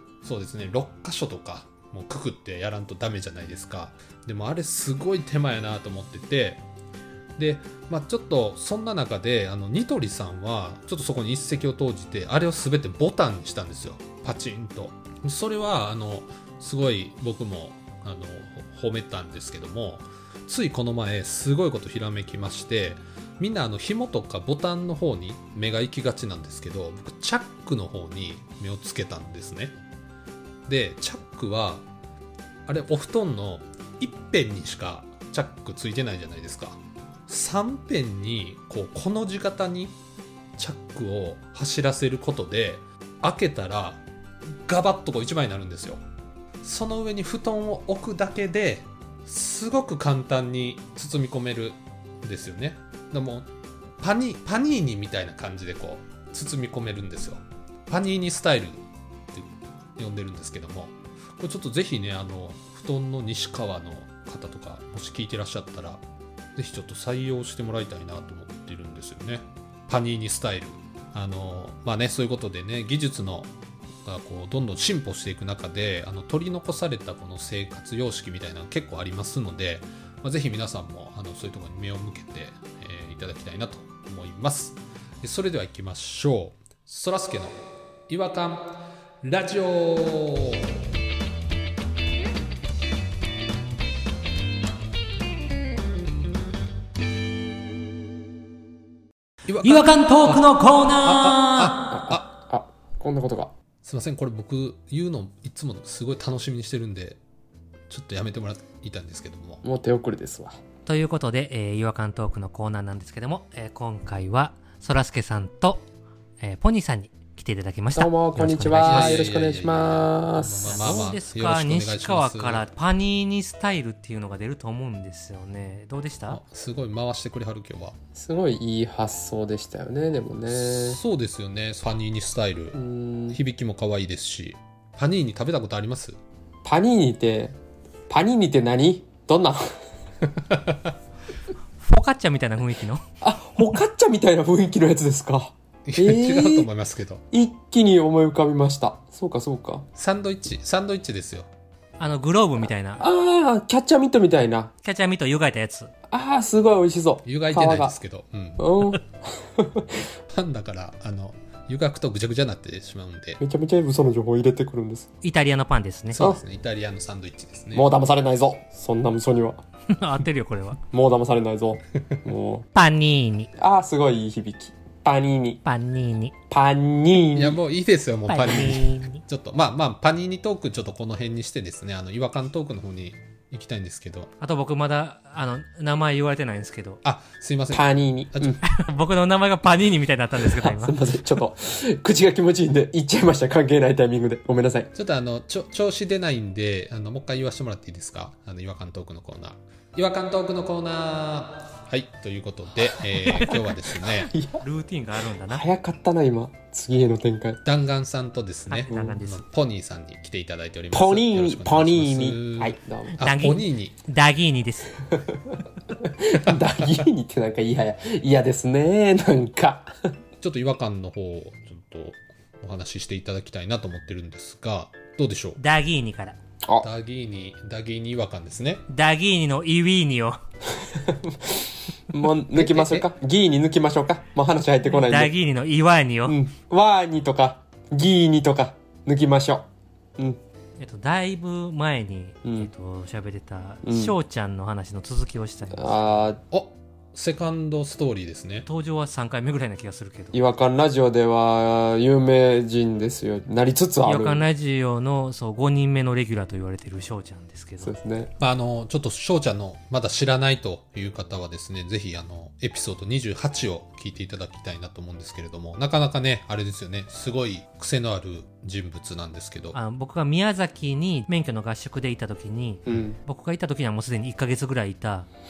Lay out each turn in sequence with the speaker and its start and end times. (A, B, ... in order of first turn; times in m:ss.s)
0:00.2-0:06.6 A
0:07.4-0:29.8 A
0:30.7-0:31.9 A
0:32.7-0:40.0 A
0:40.6-0:44.0 A
0:44.6-0:46.0 A
0:46.6-0:53.5 A
0:54.0-0:58.8 A
0:59.3-1:06.0 A
1:06.6-1:13.5 A
1:14.0-1:30.7 A
1:39.5-1:42.3 A
1:39.6-1:41.8 B
1:41.9-1:43.5 C
1:43.8-1:47.2 A
1:47.9-1:49.6 A
1:49.6-1:50.6 C
1:50.9-1:55.8 B
1:56.4-1:59.2 B
1:58.0-2:01.2 C
1:58.7-2:02.7 A
2:00.7-2:06.4 B
2:06.3-2:08.0 A
2:08.2-2:11.0 C
2:10.5-2:12.8 A
2:12.7-2:13.4 C
2:13.3-2:16.2 A
2:16.6-2:17.6 C
2:18.1-2:19.6 C
2:20.4-2:20.9 A
2:21.8-2:23.0 B
2:23.2-2:26.7 C
2:25.9-2:27.2 A
2:27.3-2:29.9 C
2:30.0-2:31.5 A
2:32.0-2:33.0 B
2:33.0-2:34.7 C
2:34.8-2:35.9 B
2:36.1-2:38.0 C
2:37.2-2:39.0 A
2:38.6-2:40.0 C
2:40.3-2:43.4 A
2:43.4-2:45.1 C
2:45.2-2:46.2 B
2:46.1-2:47.9 A
2:46.2-2:46.4 C
2:47.7-2:49.6 C
2:49.9-2:50.8 B
2:50.9-2:52.7 C
2:52.7-2:53.5 B
2:53.6-2:55.6 C
2:55.6-2:56.4 B
2:56.5-2:57.6 C
2:57.3-3:04.3 A
2:58.3-2:59.2 B
3:04.4-3:07.0 B
3:07.0-3:08.6 A
3:07.7-3:08.6 C
3:08.6-3:11.0 B
3:10.4-3:14.9 C
3:14.9-3:24.3 A
3:23.1-3:24.6 C
3:24.6-3:25.7 B
3:25.4-3:27.6 C
3:27.6-3:34.0 A
3:28.7-3:29.4 B
3:28.9-3:29.2 C
3:30.9-3:33.2 C
3:33.2-3:35.0 B
3:35.5-3:39.9 C
3:40.4-3:45.6 A
3:45.6-3:46.4 B
3:46.8-3:48.9 A
3:48.9-3:50.4 B
3:50.8-3:55.3 C
3:52.6-3:53.0 B
3:54.8-3:56.4 B
3:56.3-3:59.7 C
4:00.8-4:06.3 B
4:02.4-4:02.7 C
4:03.8-4:04.2 C
4:05.7-4:06.4 C
4:06.5-4:08.7 A
4:08.7-4:10.4 B
4:10.3-4:14.5 C
4:14.0-4:18.0 B
4:17.8-4:18.3 C
4:18.4-4:29.8 A
4:29.7-4:35.3 B
4:32.9-4:33.2 C